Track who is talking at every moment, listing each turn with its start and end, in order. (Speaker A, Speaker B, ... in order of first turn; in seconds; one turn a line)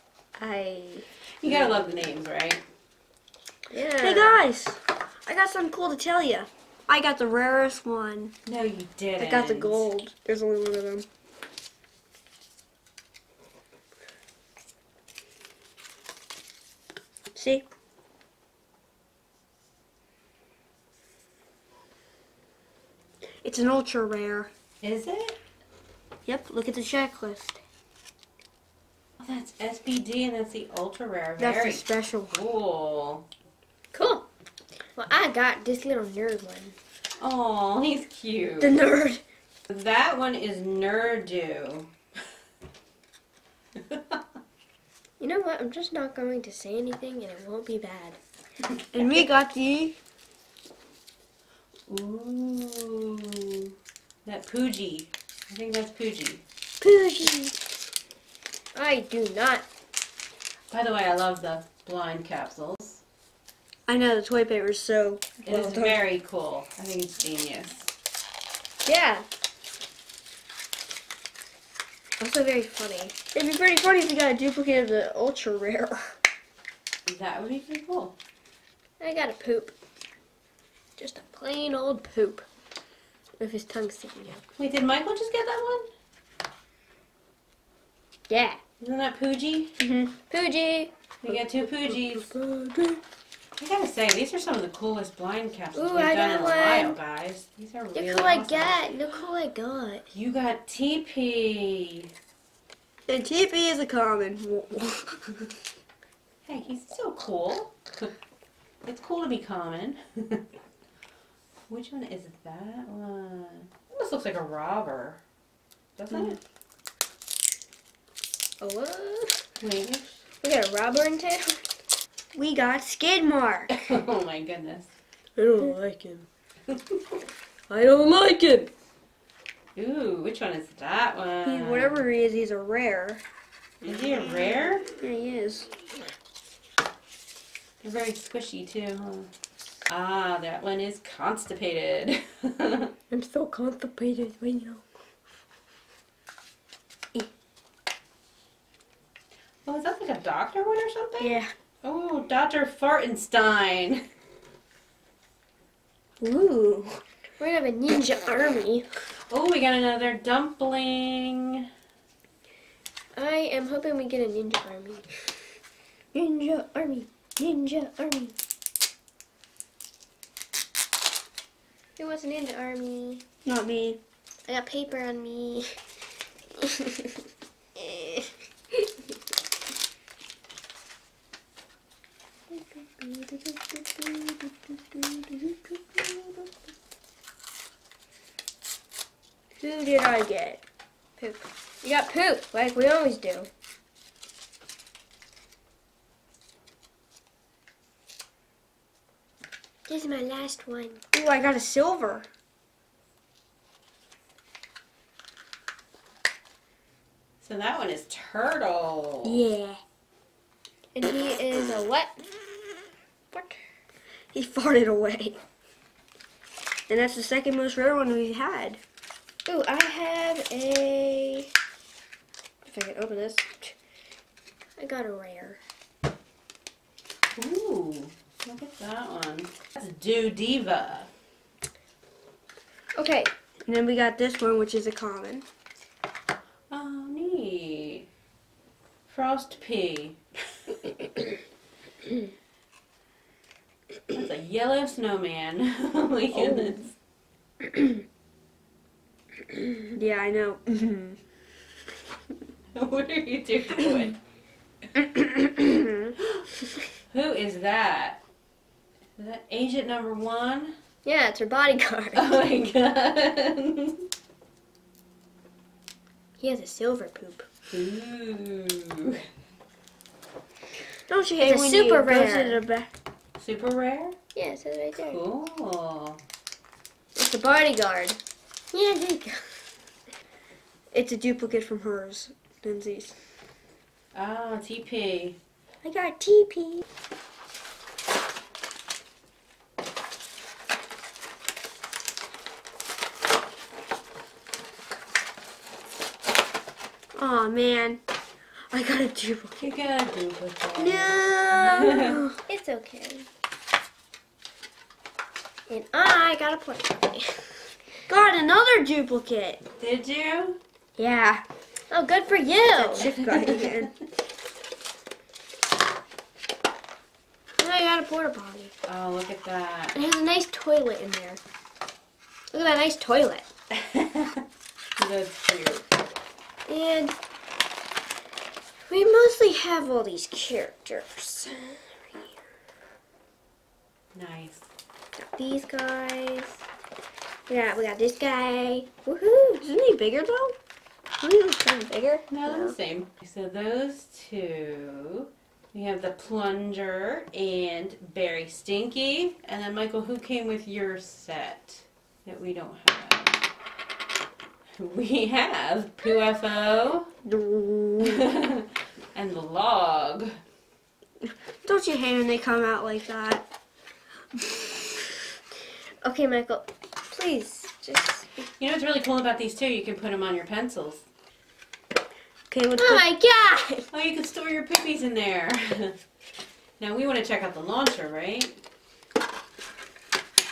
Speaker A: 0.4-1.1
Speaker B: 1.4-2.6
Speaker A: 3.7-4.4
Speaker C: 4.0-8.3
Speaker B: 8.4-9.9
Speaker C: 9.2-11.1
Speaker C: 17.4-17.6
Speaker C: 23.4-24.5
Speaker B: 24.8-25.4
Speaker C: 26.2-27.6
Speaker B: 29.2-33.2
Speaker C: 31.4-32.4
Speaker A: 33.9-34.2
Speaker A: 35.0-36.8
Speaker B: 37.2-38.8
Speaker C: 38.6-39.2
Speaker B: 39.7-41.9
Speaker B: 43.9-44.2
Speaker A: 45.2-48.2
Speaker C: 48.9-50.0
Speaker B: 51.9-53.7
Speaker B: 54.2-56.4
Speaker C: 57.0-57.4
Speaker A: 58.8-59.6
Speaker B: 60.7-63.0
Speaker C: 63.9-66.0
Speaker B: 65.4-67.9
Speaker A: 68.9-69.2
Speaker A: 72.2-73.1
Speaker C: 73.2-76.1
Speaker B: 77.1-78.2
Speaker A: 79.0-79.7
Speaker A: 81.0-82.5
Speaker A: 83.4-84.4
Speaker B: 84.6-85.9
Speaker A: 88.3-88.6
Speaker B: 88.8-89.8
Speaker C: 89.8-90.1
Speaker A: 90.3-90.9
Speaker B: 91.2-92.3
Speaker C: 92.1-93.0
Speaker B: 93.6-98.9
Speaker A: 95.8-97.0
Speaker A: 97.9-100.1
Speaker B: 100.1-102.1
Speaker C: 103.1-105.4
Speaker B: 106.5-108.1
Speaker B: 108.8-110.4
Speaker B: 111.7-115.2
Speaker B: 116.0-116.4
Speaker A: 118.6-119.4
Speaker B: 119.6-120.2
Speaker A: 120.4-121.6
Speaker C: 122.3-123.7
Speaker B: 123.7-124.9
Speaker C: 125.4-126.3
Speaker C: 127.7-128.7
Speaker B: 129.8-132.1
Speaker C: 131.4-133.2
Speaker B: 133.8-134.9
Speaker C: 135.0-135.7
Speaker B: 137.8-139.3
Speaker B: 139.9-142.9
Speaker A: 143.1-144.8
Speaker B: 149.7-154.0
Speaker C: 151.2-151.5
Speaker C: 156.2-157.0
Speaker A: 157.4-158.9
Speaker B: 159.3-161.6
Speaker A: 163.1-165.1
Speaker C: 166.1-167.1
Speaker A: 167.4-168.3
Speaker A: 172.0-173.2
Speaker C: 173.4-174.0
Speaker A: 174.5-175.8
Speaker A: 177.8-178.2
Speaker A: 182.5-183.4
Speaker C: 184.0-186.3
Speaker C: 189.6-190.6
Speaker A: 191.2-193.5
Speaker A: 199.9-201.0
Speaker C: 201.1-202.3
Speaker B: 207.4-209.4
Speaker A: 209.2-209.8
Speaker A: 210.9-212.1
Speaker A: 213.3-213.6
Speaker C: 214.3-215.4
Speaker C: 216.9-218.8
Speaker A: 219.5-221.5
Speaker A: 222.7-223.5
Speaker A: 224.8-225.6
Speaker B: 227.4-231.1
Speaker A: 233.0-233.3
Speaker C: 233.7-235.5
Speaker B: 236.7-238.1
Speaker B: 239.1-240.2
Speaker B: 244.1-247.0
Speaker C: 246.4-246.8
Speaker C: 249.9-251.2
Speaker B: 252.8-254.2
Speaker C: 255.0-256.1
Speaker B: 257.1-258.2
Speaker B: 259.2-260.8
Speaker A: 261.0-262.2
Speaker B: 262.1-264.0
Speaker A: 266.4-267.5
Speaker B: 267.7-269.2
Speaker C: 271.1-272.9
Speaker A: 271.4-272.6
Speaker B: 273.4-274.1
Speaker A: 274.4-275.2
Speaker B: 274.9-276.2
Speaker A: 277.1-278.2
Speaker A: 278.7-279.4
Speaker C: 280.9-283.1
Speaker B: 284.1-285.4
Speaker C: 285.9-286.3
Speaker A: 285.9-286.8
Speaker C: 297.1-298.0
Speaker C: 298.7-299.6
Speaker B: 299.6-302.2
Speaker C: 300.8-302.4
Speaker A: 302.5-303.3
Speaker A: 305.7-307.5
Speaker C: 308.1-309.6
Speaker B: 309.8-310.6
Speaker A: 311.0-311.3
Speaker C: 311.1-311.4
Speaker A: 311.9-313.1
Speaker C: 312.7-313.9
Speaker B: 313.0-313.9
Speaker A: 317.6-318.7
Speaker B: 318.9-320.0
Speaker A: 319.9-321.4
Speaker A: 322.5-323.5
Speaker B: 323.8-324.4
Speaker B: 325.0-325.9
Speaker A: 326.7-327.1
Speaker A: 328.9-331.9
Speaker B: 334.1-334.6
Speaker A: 335.2-336.6
Speaker A: 337.5-339.4
Speaker C: 339.4-340.6
Speaker C: 341.2-342.7
Speaker B: 342.3-353.4
Speaker B: 354.8-357.1
Speaker C: 357.2-358.3
Speaker B: 358.0-360.3
Speaker C: 361.6-363.4
Speaker A: 366.0-368.3
Speaker C: 367.2-367.8
Speaker B: 368.6-371.0
Speaker C: 372.5-373.1
Speaker A: 372.8-373.9
Speaker B: 373.9-376.0
Speaker B: 376.8-378.6